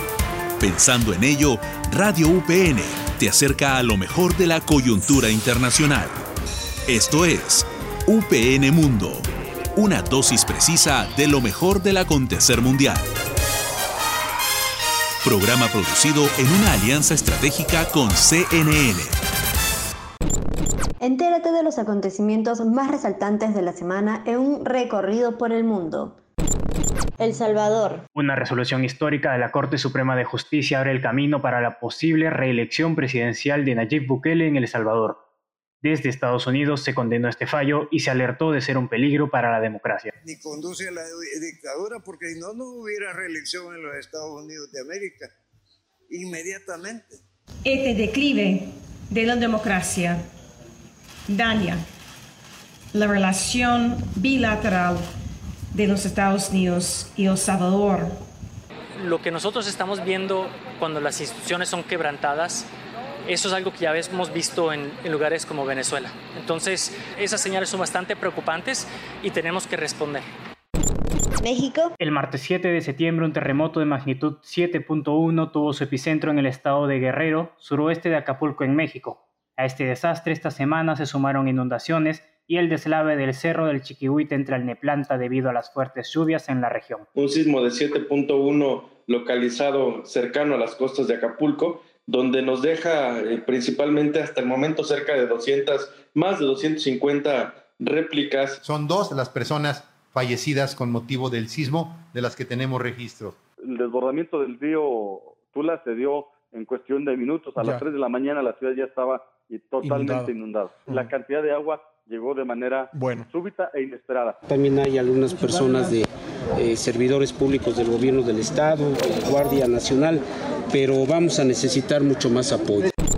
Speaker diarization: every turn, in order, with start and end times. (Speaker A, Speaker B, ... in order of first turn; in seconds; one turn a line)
Speaker A: 0.6-6.2
Speaker A: 6.9-13.1
Speaker A: 15.2-19.2
Speaker B: 21.0-26.2
Speaker B: 27.2-28.1
Speaker C: 28.2-35.2
Speaker C: 35.8-40.1
Speaker D: 40.2-45.3
Speaker D: 46.1-47.2
Speaker E: 47.6-50.3
Speaker E: 51.3-51.9
Speaker E: 52.9-55.1
Speaker E: 55.7-58.3
Speaker F: 59.0-62.7
Speaker F: 63.3-70.2
Speaker B: 71.4-71.9
Speaker C: 72.0-87.1
Speaker G: 87.2-98.6
Speaker H: 98.7-103.3
Speaker I: 103.6-114.4
Speaker J: 114.5-122.9